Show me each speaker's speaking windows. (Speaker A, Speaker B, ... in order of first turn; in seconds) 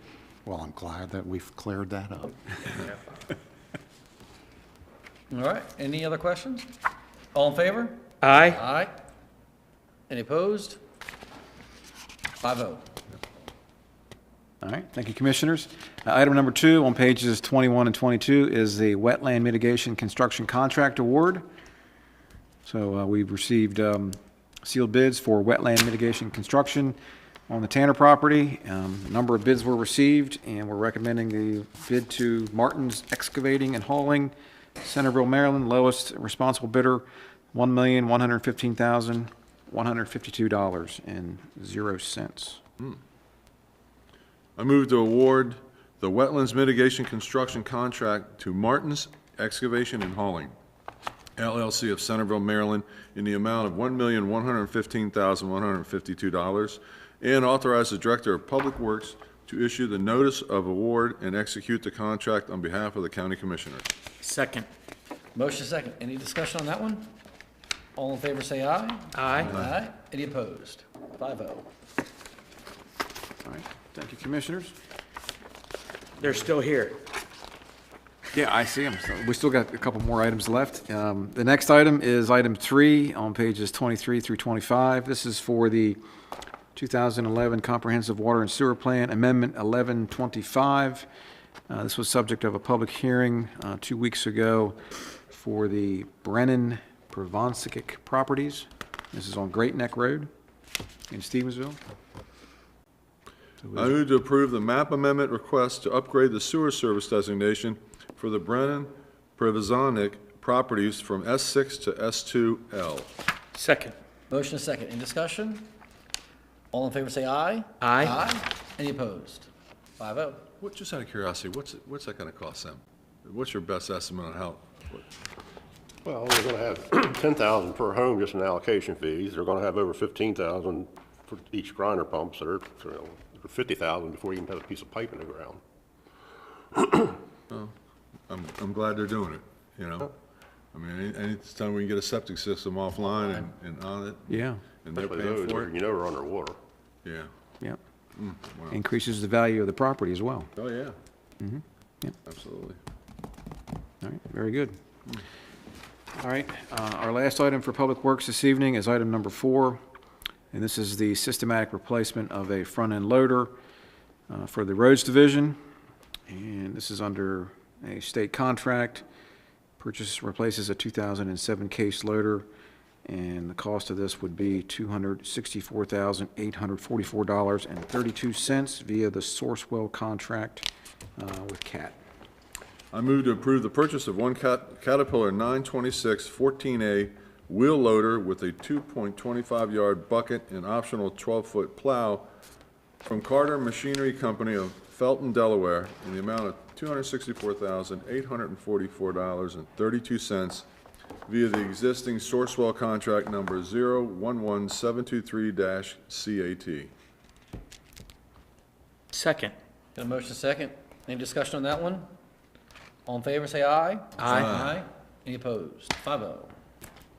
Speaker A: 0.4-2.9
Speaker B: 5.3-6.7, 7.3-8.9, 10.1-10.8, 12.4-12.8, 65.3-67.1, 68.0-71.7, 114.3-115.7, 116.7-120.5, 209.9-212.1, 213.1-216.5
Speaker C: 8.2-8.6, 64.2-64.7, 69.1-69.5, 76.2-77.1, 113.5-114.0, 117.8-118.2, 209.1-209.5
Speaker D: 14.6-21.4, 22.6-27.0, 27.5-42.6, 73.4-74.7, 78.3-86.0, 86.7-91.1, 91.7-94.8, 95.3-100.3, 101.1-101.8, 103.6-103.9, 144.3-144.6, 148.7-150.5, 151.4-152.1, 154.0-154.8, 156.2-159.8, 160.5-163.5, 164.3-165.6, 166.3-169.0, 169.8-172.4, 173.0-182.0
Speaker E: 44.6-50.5, 51.4-63.9, 69.4-69.7, 103.7-113.1, 120.6-125.0, 138.3-140.1, 140.7-145.7, 148.2-148.8, 150.6-150.9, 152.2-152.8, 182.9-192.3, 193.1-200.7, 201.3-206.9, 214.2-214.8
Speaker F: 126.0-135.6, 136.8-137.1, 144.9-146.6